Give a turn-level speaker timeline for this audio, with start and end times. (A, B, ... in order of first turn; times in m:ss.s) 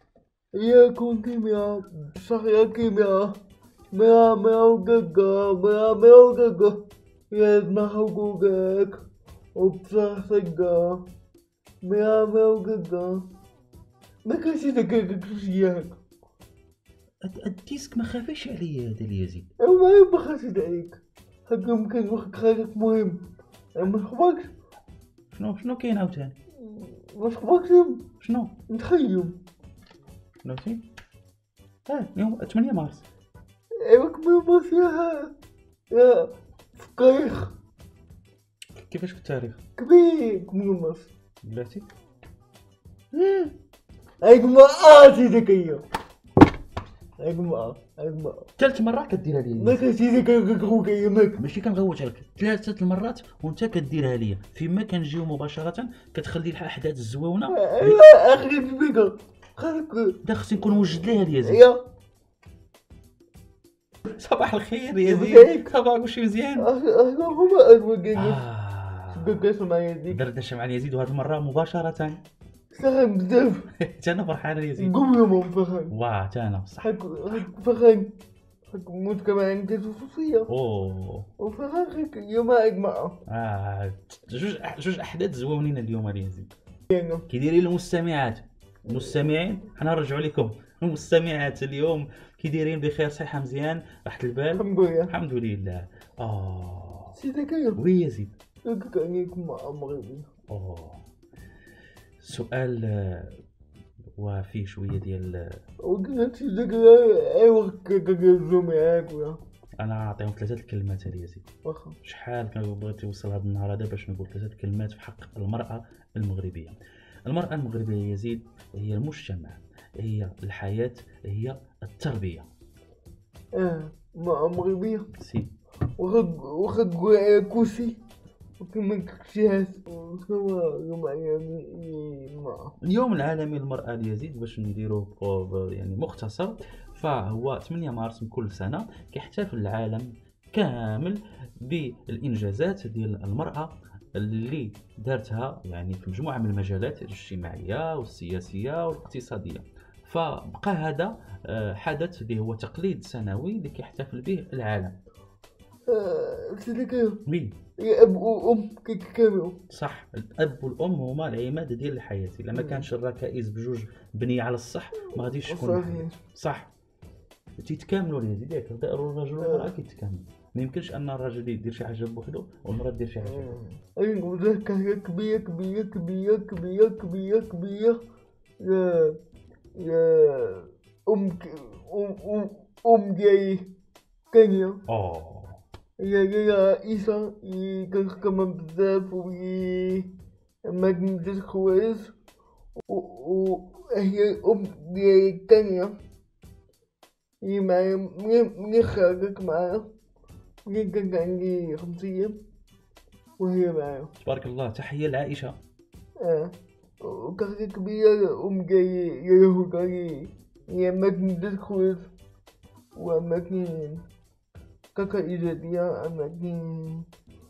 0:00.6-0:03.4 A
0:03.9-0:09.0 A
0:09.6-0:11.1 A
0:11.8-0:13.2 A
0:14.3-0:16.0 A
0:17.2-0:19.5 B
0:19.6-0:23.2 A
0:23.8-0:24.5 A
0:25.3-0:26.4 B
0:26.6-0:28.1 A
0:28.2-0:28.5 B
0:28.7-0:29.4 A
0:30.4-0:30.8 B
0:31.9-0:33.0 B
0:33.8-0:35.3 A
0:35.9-0:37.6 A
0:38.9-0:39.6 B
0:39.8-0:41.1 A
0:41.4-0:41.9 B
0:43.1-0:43.5 B
0:44.2-0:45.8 A
0:47.2-0:48.5 A
0:48.6-0:49.8 B
0:49.6-0:51.4 A
0:51.4-0:58.0 B
0:57.5-1:00.2 A
1:00.2-1:01.7 B
1:01.0-1:01.8 A
1:04.1-1:06.7 B
1:05.0-1:05.7 A
1:06.6-1:08.4 A
1:08.1-1:09.4 B
1:09.1-1:10.2 A
1:10.1-1:12.2 B
1:12.7-1:13.7 A
1:13.8-1:15.0 B
1:14.8-1:15.9 A
1:15.9-1:16.9 B
1:16.8-1:18.1 A
1:18.7-1:20.5 A
1:20.5-1:21.3 B
1:21.4-1:23.2 A
1:23.3-1:26.5 B
1:26.9-1:27.3 A
1:27.3-1:37.2 B
1:28.9-1:29.3 A
1:34.6-1:35.1 A
1:37.2-1:37.8 A
1:37.8-1:38.3 B
1:38.7-1:40.3 A
1:40.5-1:41.0 B
1:42.2-1:43.4 B
1:44.2-1:45.5 B
1:45.8-1:49.4 A
1:49.8-1:51.4 B
1:51.6-1:52.0 A
1:52.0-2:02.5 B
2:03.6-2:05.1 A
2:05.2-2:05.5 B
2:06.0-2:08.0 A
2:08.6-2:12.7 A
2:12.8-2:35.0 B
2:35.9-2:37.2 A
2:37.3-2:37.6 B
2:37.8-2:39.6 A
2:39.7-2:46.7 B
2:42.6-2:42.9 A
2:45.1-2:46.2 A
2:47.6-2:53.6 B
2:49.4-2:49.8 A
2:53.2-2:58.0 A
2:58.6-2:59.2 A
2:59.8-3:03.7 A
3:04.3-3:04.8 A
3:04.9-3:05.6 B
3:06.0-3:10.1 A
3:10.7-3:12.1 A
3:12.9-3:15.9 A
3:17.4-3:19.8 A
3:20.7-3:22.4 A
3:23.4-3:24.1 A
3:24.2-3:25.6 B
3:26.2-3:32.1 A
3:33.0-3:34.0 A
3:35.0-3:37.1 A